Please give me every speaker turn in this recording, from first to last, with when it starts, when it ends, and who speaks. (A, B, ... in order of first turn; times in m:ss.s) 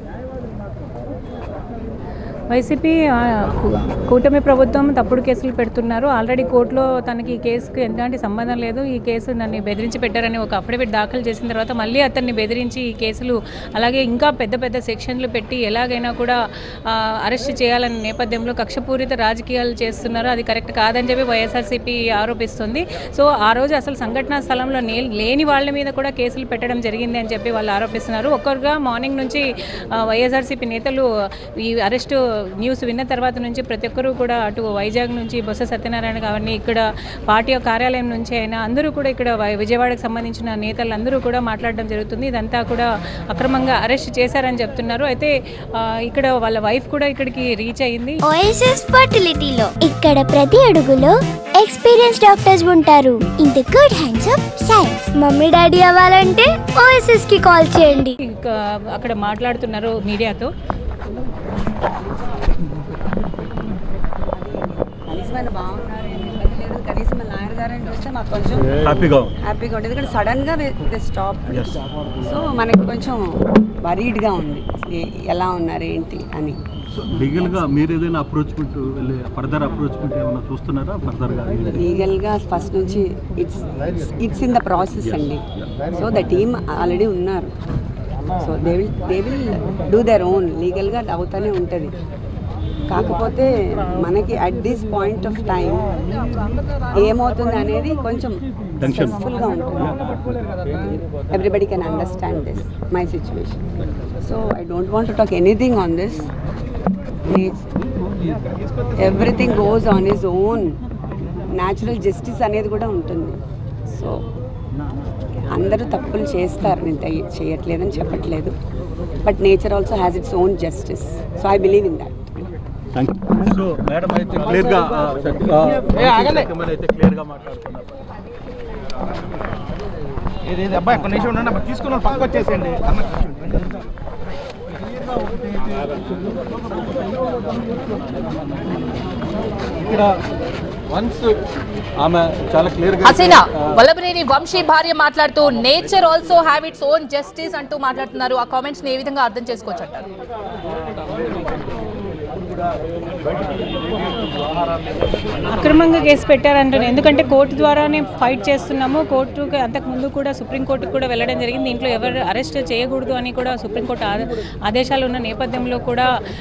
0:02.5-0:16.4 A
0:16.9-0:29.4 A
0:30.0-0:31.0 A
0:31.6-0:48.2 A
0:48.3-0:58.1 B
0:58.2-1:00.5 A
1:04.3-1:08.7 C
1:08.8-1:09.3 D
1:09.4-1:16.6 C
1:11.5-1:11.8 D
1:16.9-1:21.8 D
1:21.7-1:25.4 C
1:25.9-1:27.5 C
1:28.4-1:31.9 C
1:32.9-1:35.9 C
1:36.9-1:40.0 C
1:38.8-1:39.2 D
1:40.7-1:43.6 C
1:44.2-1:46.3 C
1:47.3-1:47.7 C
1:49.0-1:50.8 C
1:51.5-1:53.4 C
1:53.9-1:54.2 C
1:55.3-1:58.5 C
1:59.2-2:02.3 C
2:02.9-2:07.9 D
2:10.4-2:13.4 E
2:19.8-2:20.1 D
2:20.9-2:21.4 D
2:22.0-2:23.7 D
2:23.0-2:30.1 F
2:35.4-2:46.0 A